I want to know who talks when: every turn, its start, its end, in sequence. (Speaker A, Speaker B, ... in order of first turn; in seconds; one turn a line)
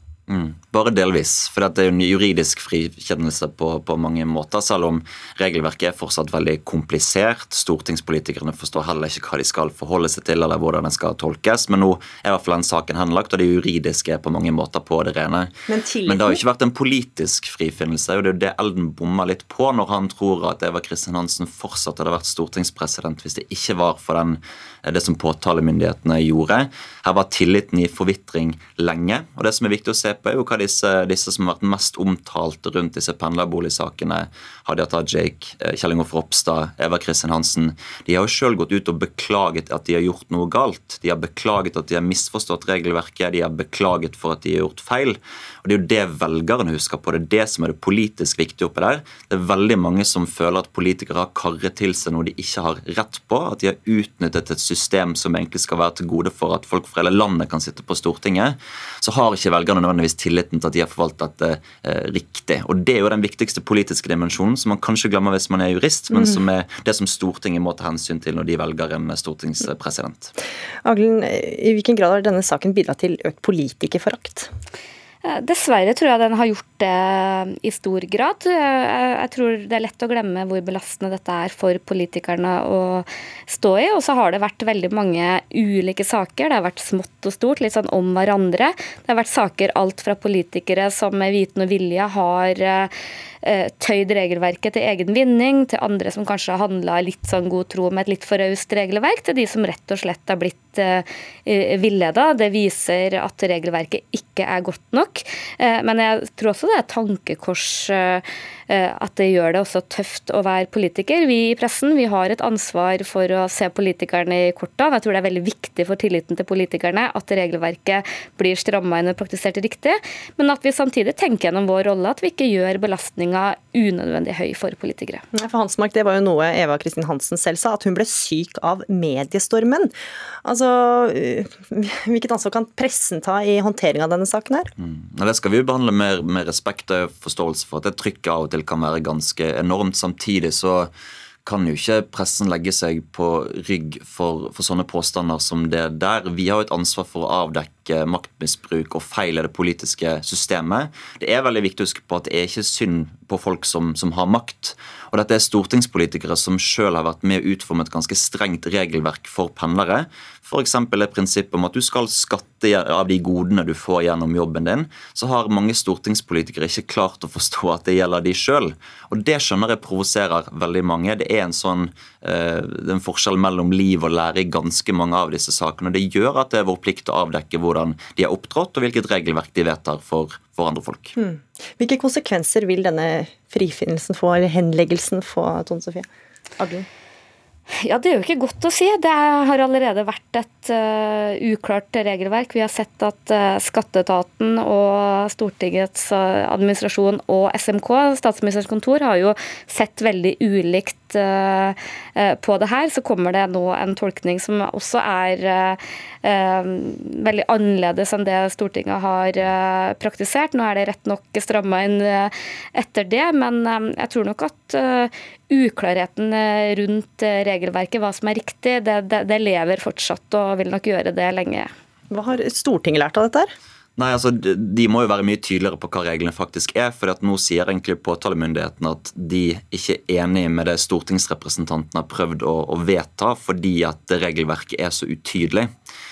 Speaker A: 0.3-15.5
Speaker B: 15.7-16.4
Speaker A: 16.1-70.3
Speaker B: 70.8-74.5
Speaker C: 75.2-125.2
Speaker B: 125.3-134.7
Speaker A: 134.8-140.9
Speaker A: 141.4-181.1
Speaker B: 181.2-186.8
Speaker C: 187.8-221.7
Speaker B: 222.1-223.5
Speaker A: 224.0-235.7